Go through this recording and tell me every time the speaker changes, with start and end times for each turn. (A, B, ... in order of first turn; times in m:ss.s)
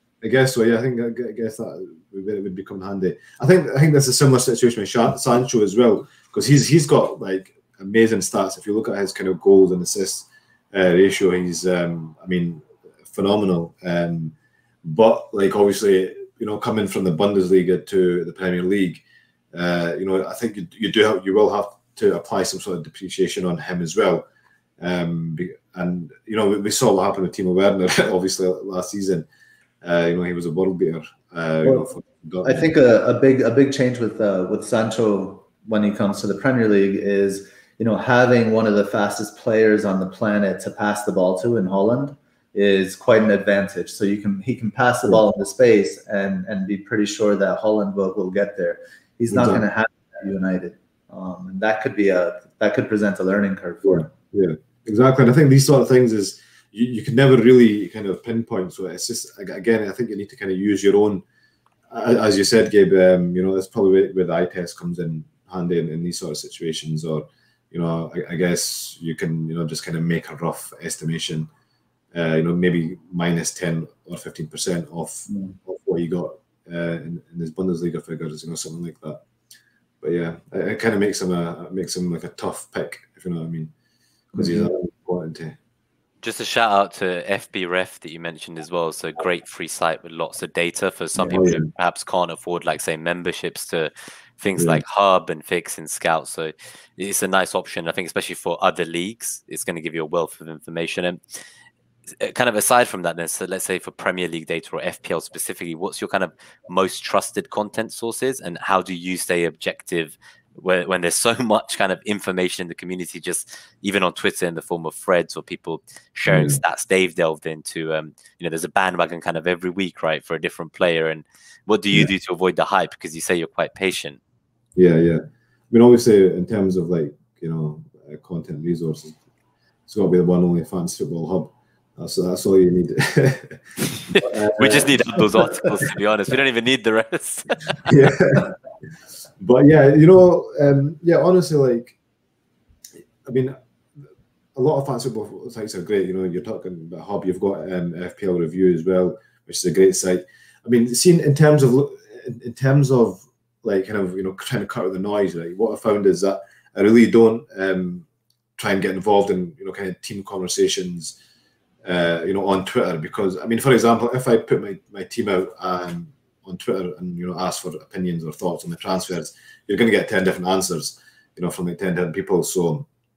0:00.2-0:19.0 A
0:19.5-0:24.2 A
0:24.8-0:29.3 A
0:29.8-0:32.7 A
0:32.4-0:54.1 B
0:49.3-0:49.6 A
0:53.8-1:01.2 A
1:01.9-1:11.5 A
1:12.1-1:19.2 A
1:15.3-1:15.6 B
1:20.0-1:23.7 A
1:24.3-1:24.7 B
1:24.3-1:25.6 A
1:26.2-1:41.2 C
1:31.2-1:31.7 A
1:34.6-1:34.8 A
1:42.2-2:04.2 C
1:56.3-1:56.6 A
2:04.8-2:09.2 A
2:09.9-2:15.5 A
2:14.1-2:18.0 C
2:17.9-2:18.6 A
2:19.4-2:22.0 A
2:23.2-2:23.6 A
2:24.6-2:38.1 A
2:38.6-2:41.2 A
2:41.8-2:52.9 A